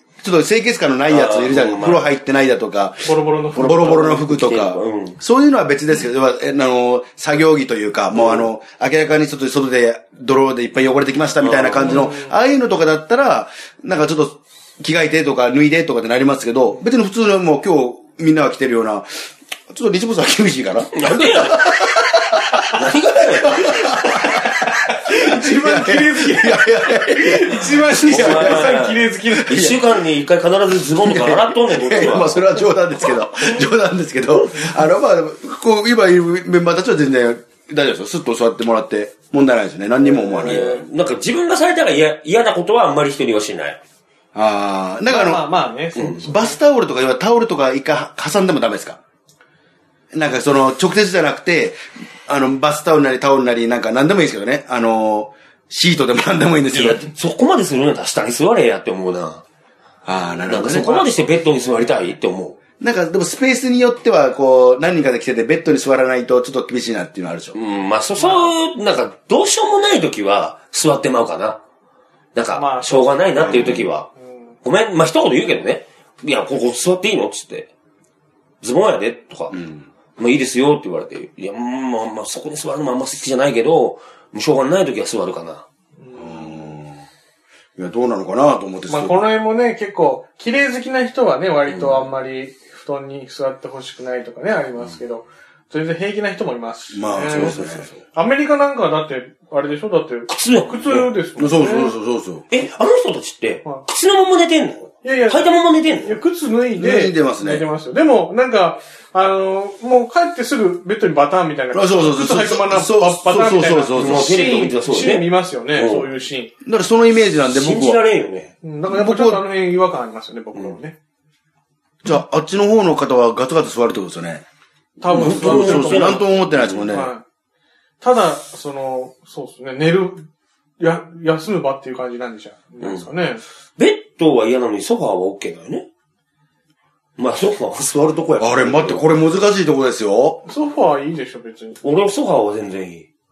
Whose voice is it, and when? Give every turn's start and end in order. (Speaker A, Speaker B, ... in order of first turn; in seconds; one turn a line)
Speaker A: 0.2-22.9
Speaker B: 1.1-2.1
Speaker C: 3.0-4.2
Speaker B: 4.0-5.2
Speaker C: 8.1-8.5
Speaker B: 11.4-12.1
Speaker C: 11.8-12.4
Speaker B: 20.9-21.8
Speaker B: 22.7-23.9
Speaker A: 23.4-29.9
Speaker C: 24.9-29.7
Speaker B: 28.1-32.5
Speaker A: 31.0-40.9
Speaker B: 40.1-43.8
Speaker A: 44.4-45.5
Speaker C: 45.1-46.6
Speaker B: 46.0-46.2
Speaker A: 46.2-49.0
Speaker A: 50.1-57.0
Speaker B: 56.7-59.4
Speaker A: 60.0-61.1
Speaker B: 60.5-62.6
Speaker A: 62.8-67.6
Speaker B: 67.5-71.6
Speaker C: 68.2-68.5
Speaker B: 72.3-74.1
Speaker C: 72.5-74.5
Speaker A: 73.4-73.9
Speaker B: 74.6-77.7
Speaker B: 78.6-79.5
Speaker A: 79.5-79.9
Speaker B: 80.2-85.7
Speaker C: 86.0-86.8
Speaker A: 86.2-87.0
Speaker A: 87.8-89.3
Speaker C: 88.9-102.0
Speaker B: 91.7-92.0
Speaker A: 96.9-97.9
Speaker B: 97.2-97.6
Speaker B: 100.3-101.1
Speaker A: 101.4-102.5
Speaker B: 102.5-106.2
Speaker C: 105.0-116.5
Speaker A: 106.8-107.7
Speaker A: 111.7-114.4
Speaker B: 114.0-116.1
Speaker A: 116.6-118.0
Speaker B: 117.4-118.5
Speaker C: 118.6-121.0
Speaker A: 118.9-119.4
Speaker A: 122.0-124.4
Speaker C: 125.0-126.3
Speaker A: 125.0-127.1
Speaker B: 125.1-126.9
Speaker C: 126.9-127.2
Speaker C: 128.0-130.3
Speaker C: 130.8-133.4
Speaker B: 132.8-133.1
Speaker B: 133.8-135.9
Speaker B: 137.2-139.0
Speaker A: 138.4-140.4
Speaker C: 140.4-141.8
Speaker B: 141.8-143.1